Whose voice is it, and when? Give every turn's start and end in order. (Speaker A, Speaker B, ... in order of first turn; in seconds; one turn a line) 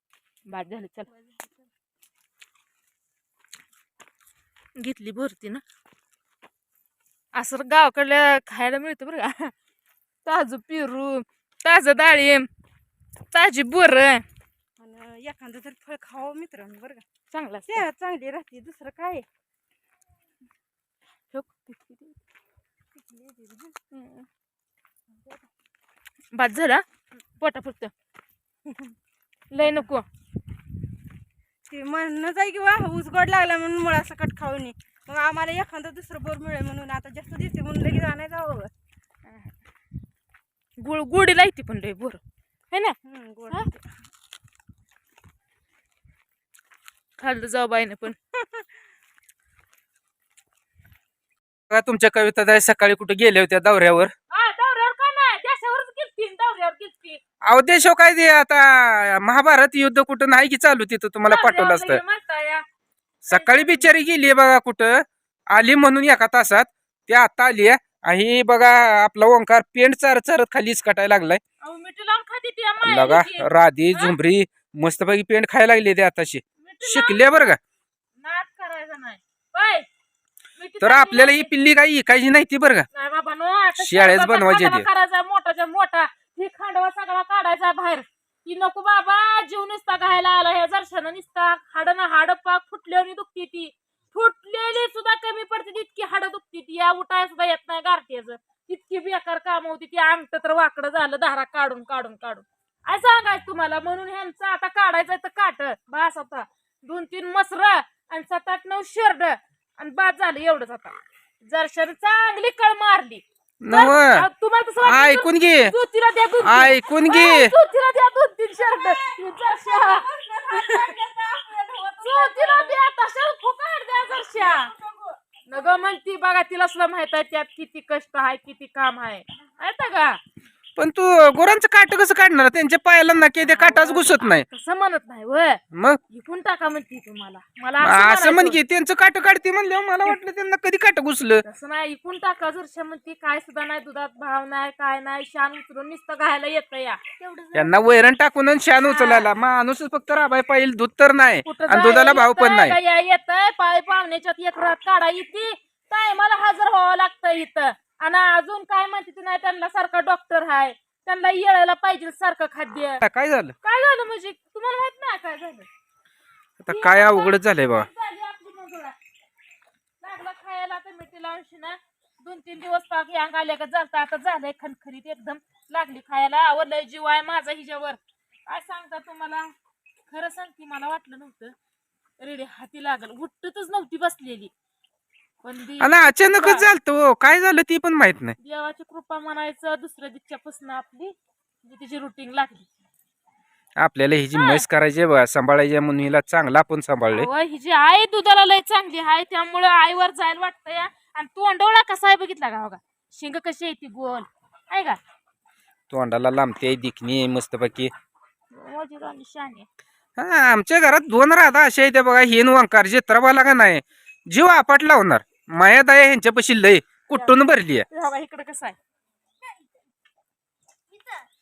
Speaker A: 0.5-1.1
Speaker B: 1.1-1.7
Speaker A: 4.8-5.6
Speaker A: 7.3-9.5
Speaker A: 10.2-12.5
Speaker A: 13.3-14.2
Speaker B: 14.8-17.0
Speaker A: 17.3-17.8
Speaker B: 17.7-19.3
Speaker A: 21.3-22.2
Speaker B: 22.9-23.8
Speaker A: 23.9-24.3
Speaker B: 25.1-25.4
Speaker A: 26.3-26.8
Speaker A: 27.4-27.9
Speaker A: 29.5-30.1
Speaker B: 29.6-29.9
Speaker B: 31.7-38.7
Speaker A: 40.8-43.0
Speaker B: 43.0-43.9
Speaker A: 47.2-48.1
Speaker B: 48.3-48.7
Speaker C: 51.7-54.1
Speaker A: 54.3-57.2
Speaker C: 57.5-62.0
Speaker A: 61.2-62.6
Speaker C: 63.2-71.4
Speaker A: 63.3-63.9
Speaker A: 71.6-74.2
Speaker C: 72.8-77.6
Speaker A: 76.6-77.6
Speaker A: 78.2-79.9
Speaker A: 80.6-81.5
Speaker C: 80.8-82.9
Speaker A: 82.9-120.0
Speaker C: 83.8-84.9
Speaker C: 113.6-114.3
Speaker C: 114.8-115.7
Speaker C: 116.4-117.5
Speaker B: 118.5-122.8
Speaker A: 122.0-124.7
Speaker B: 124.0-125.9
Speaker A: 125.5-130.2
Speaker C: 130.8-134.4
Speaker A: 133.4-138.6
Speaker C: 135.7-136.0
Speaker C: 137.8-141.4
Speaker A: 141.4-147.0
Speaker B: 147.2-147.8
Speaker C: 147.5-152.8
Speaker A: 148.8-149.3
Speaker A: 151.4-163.0
Speaker C: 163.0-163.6
Speaker A: 163.6-165.7
Speaker C: 166.6-167.9
Speaker A: 166.7-169.0
Speaker A: 170.0-179.5
Speaker A: 180.1-181.6
Speaker A: 182.2-184.5
Speaker A: 185.4-186.7
Speaker C: 185.8-188.4
Speaker A: 188.4-192.7
Speaker C: 193.8-197.3
Speaker A: 194.3-194.7
Speaker A: 197.1-205.0
Speaker C: 205.9-207.9
Speaker A: 208.5-209.7
Speaker C: 210.2-217.8
Speaker A: 217.9-218.8